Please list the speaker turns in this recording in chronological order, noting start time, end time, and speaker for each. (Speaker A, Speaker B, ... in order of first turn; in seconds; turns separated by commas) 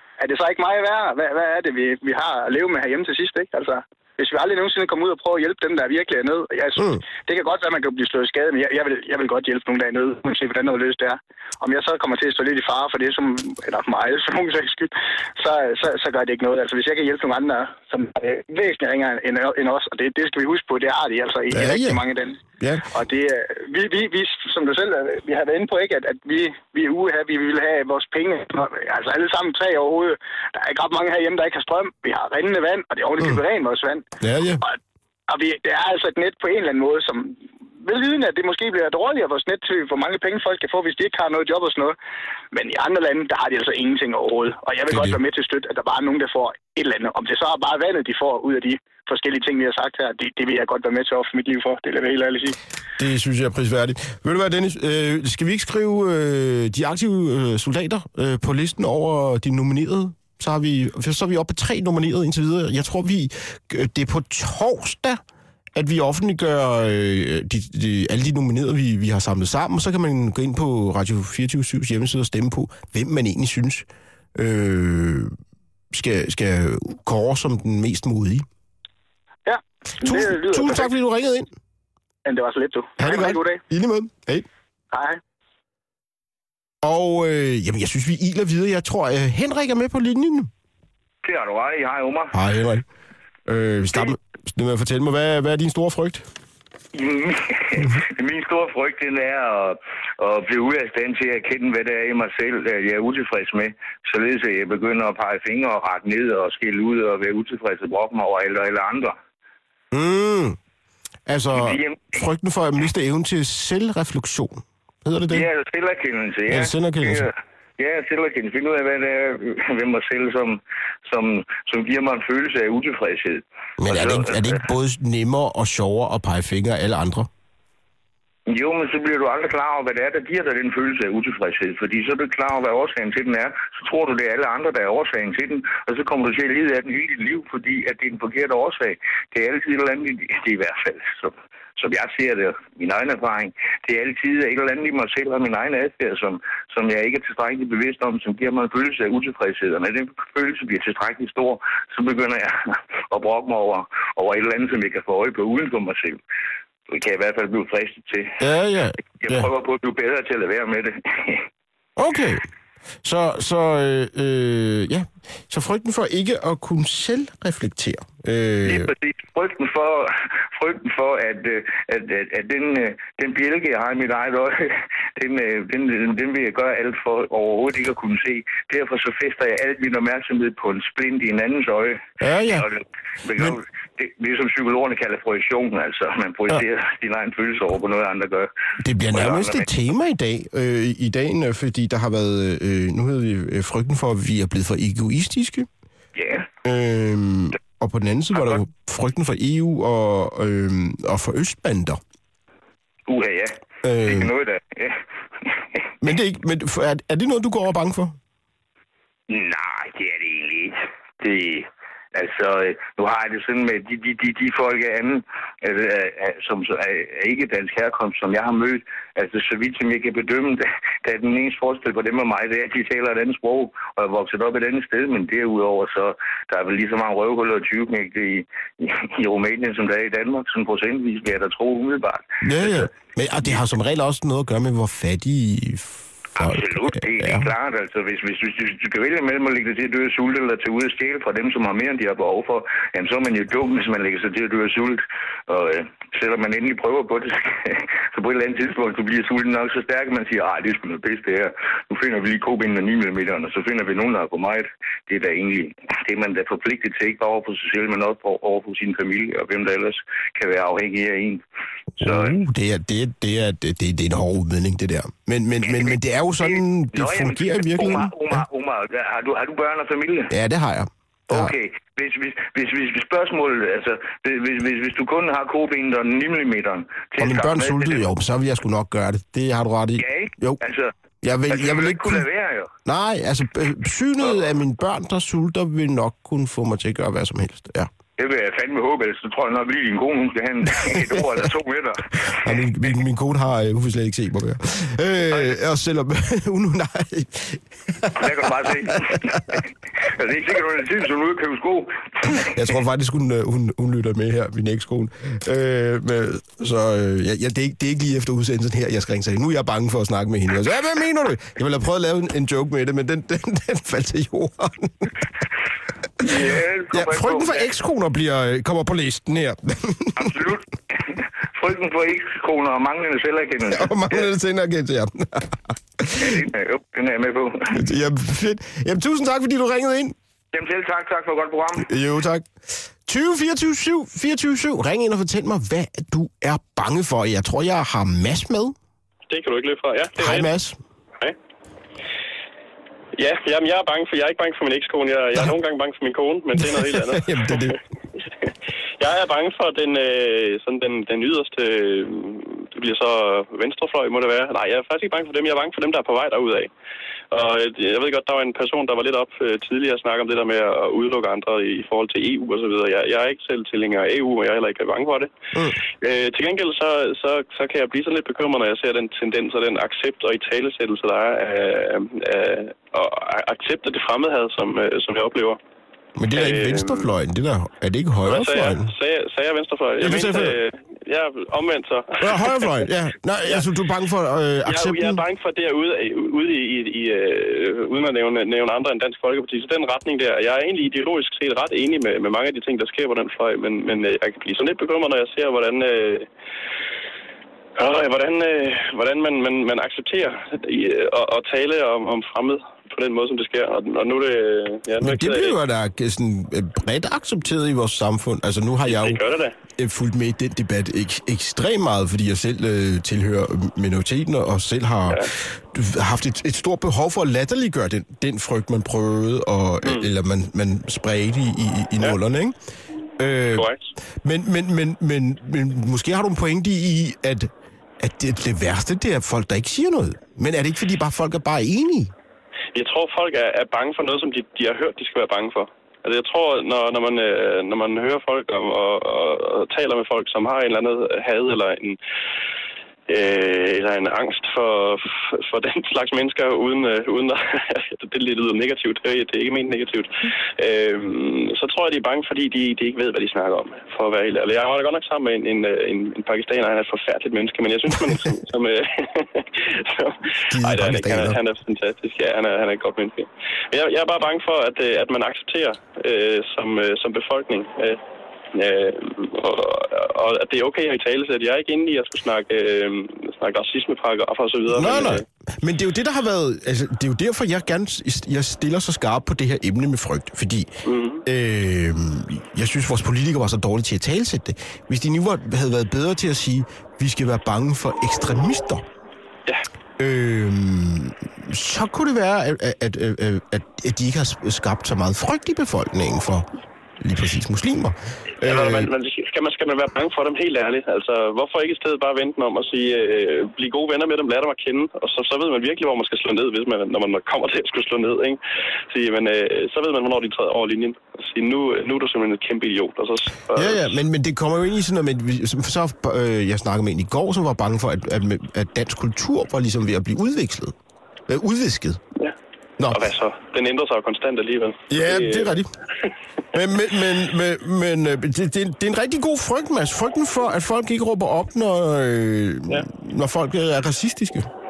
Speaker A: 0.2-22.4, Speaker B: 21.5-22.0, Speaker B: 22.6-22.9, Speaker A: 22.9-34.0, Speaker B: 34.2-34.6, Speaker A: 35.3-42.0, Speaker A: 42.5-52.6, Speaker B: 44.9-45.2, Speaker B: 53.0-65.2, Speaker B: 65.8-75.3, Speaker B: 75.9-78.5, Speaker A: 79.5-80.9, Speaker B: 80.0-81.5, Speaker A: 82.3-83.6, Speaker B: 83.0-84.5, Speaker A: 84.9-85.2, Speaker B: 86.8-90.5, Speaker C: 91.2-92.3, Speaker B: 92.3-92.8, Speaker B: 93.5-96.3, Speaker C: 96.9-109.2, Speaker B: 109.9-110.6, Speaker B: 111.3-115.5, Speaker C: 111.6-112.2, Speaker C: 115.3-124.6, Speaker B: 116.5-117.3, Speaker B: 123.8-127.3, Speaker C: 128.5-156.2, Speaker C: 156.9-158.4, Speaker B: 158.4-159.5, Speaker C: 159.2-161.4, Speaker B: 162.0-162.5, Speaker B: 163.0-168.9, Speaker C: 168.7-188.5, Speaker B: 182.2-182.7, Speaker B: 183.3-183.6, Speaker B: 188.8-195.7, Speaker C: 189.1-189.7, Speaker C: 196.2-196.5, Speaker B: 196.6-202.0, Speaker C: 203.1-205.6, Speaker B: 203.8-204.3, Speaker B: 206.0-208.2, Speaker C: 209.3-232.9, Speaker B: 232.4-237.5, Speaker C: 236.4-261.4, Speaker B: 262.0-268.4, Speaker C: 262.0-262.4, Speaker C: 265.6-270.3, Speaker B: 270.3-271.5, Speaker C: 271.3-278.1, Speaker B: 277.2-280.6, Speaker C: 280.0-280.9, Speaker B: 281.2-282.3, Speaker C: 281.5-282.7, Speaker B: 282.9-287.9, Speaker C: 288.2-292.6, Speaker B: 290.7-291.4, Speaker B: 292.4-299.6, Speaker C: 295.3-295.6, Speaker C: 298.2-302.6, Speaker B: 302.5-315.1, Speaker C: 316.2-317.7, Speaker B: 316.2-320.4, Speaker C: 320.2-324.2, Speaker B: 323.7-326.4, Speaker C: 326.2-327.8, Speaker B: 327.7-330.2, Speaker C: 330.5-331.9, Speaker B: 331.8-338.8, Speaker D: 339.3-340.5, Speaker B: 340.2-340.8, Speaker D: 343.2-347.7, Speaker B: 346.6-347.8, Speaker D: 349.0-356.7, Speaker D: 357.3-365.3, Speaker B: 365.5-365.8, Speaker D: 366.0-375.6, Speaker B: 376.2-378.9, Speaker D: 376.4-377.1, Speaker D: 378.2-382.9, Speaker B: 380.0-380.6, Speaker B: 382.2-385.2, Speaker D: 384.7-396.3, Speaker D: 397.8-405.6, Speaker B: 405.0-409.2, Speaker D: 408.9-409.6, Speaker B: 409.7-422.6, Speaker D: 419.8-420.1, Speaker B: 423.2-432.1, Speaker D: 423.5-423.8, Speaker D: 432.7-442.0, Speaker D: 443.1-468.0, Speaker B: 460.5-461.4, Speaker D: 468.5-475.2, Speaker B: 474.7-480.7, Speaker D: 480.9-481.2, Speaker B: 481.2-488.9, Speaker B: 490.0-496.5, Speaker B: 497.0-498.9, Speaker D: 498.4-508.4, Speaker D: 508.9-514.0, Speaker B: 513.6-520.8, Speaker B: 521.3-522.0, Speaker D: 522.9-525.6, Speaker B: 524.9-525.7, Speaker B: 526.5-534.5